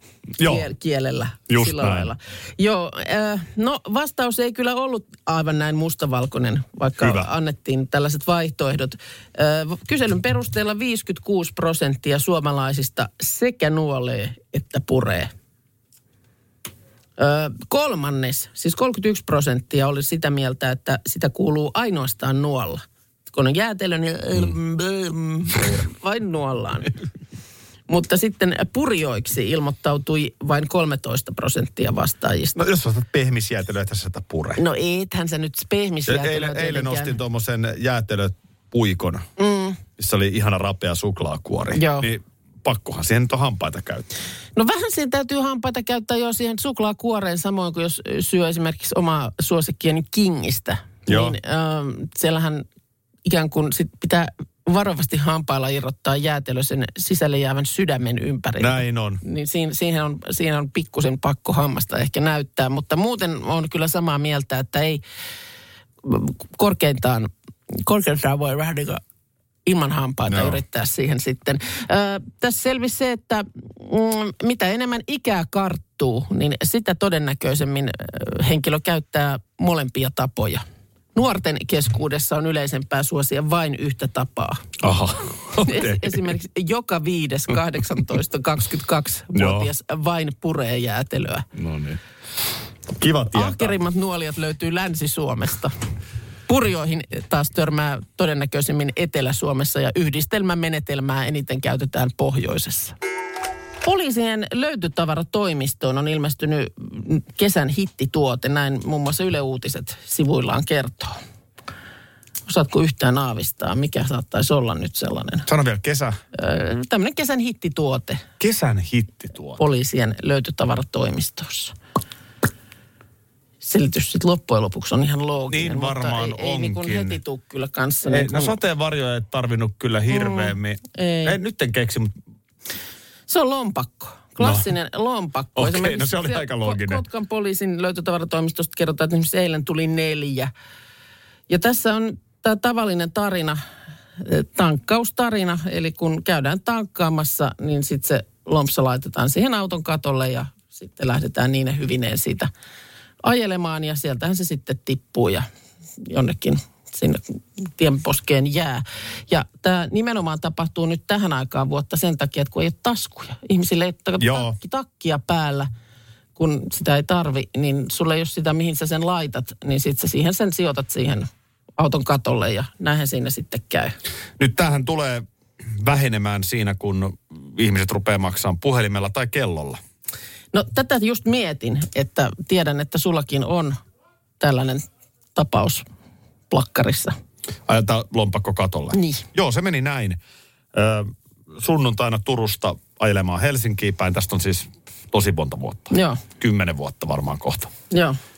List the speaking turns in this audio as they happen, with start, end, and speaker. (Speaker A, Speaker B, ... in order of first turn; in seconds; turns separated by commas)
Speaker A: 0.4-0.7, Speaker B: 0.4-15.3, Speaker A: 1.5-2.1, Speaker A: 7.0-7.3, Speaker B: 17.2-26.9, Speaker B: 27.9-32.6, Speaker A: 32.5-34.6, Speaker B: 34.6-37.2, Speaker A: 36.0-39.3, Speaker B: 39.4-39.8, Speaker A: 40.0-44.0, Speaker B: 41.7-42.1, Speaker B: 44.5-52.6, Speaker A: 51.1-51.4, Speaker B: 53.2-65.0, Speaker A: 58.6-59.2, Speaker B: 66.0-69.0, Speaker B: 69.6-80.6, Speaker A: 70.3-70.6, Speaker B: 81.1-84.7, Speaker A: 84.8-86.3, Speaker B: 85.6-91.5, Speaker A: 89.3-89.7, Speaker A: 91.5-92.0, Speaker A: 92.9-93.8, Speaker B: 93.3-95.7, Speaker B: 96.5-102.9, Speaker B: 103.8-111.2, Speaker B: 112.5-115.5, Speaker A: 115.5-116.2, Speaker B: 116.3-118.2, Speaker A: 118.4-119.6, Speaker B: 119.6-121.7, Speaker B: 123.6-128.6, Speaker A: 125.5-127.2, Speaker A: 128.1-132.1, Speaker B: 130.1-131.4, Speaker B: 133.3-140.5, Speaker A: 134.4-134.7, Speaker A: 135.6-137.0, Speaker B: 141.5-143.6, Speaker B: 144.2-152.5, Speaker B: 153.2-155.5, Speaker B: 156.0-165.7, Speaker A: 164.2-164.5, Speaker B: 166.3-173.9, Speaker A: 174.4-179.8, Speaker B: 180.5-183.8, Speaker B: 184.4-185.8, Speaker B: 186.5-187.2, Speaker A: 187.7-190.2, Speaker B: 188.9-189.2, Speaker A: 190.7-197.7, Speaker B: 195.9-196.2, Speaker B: 197.9-198.2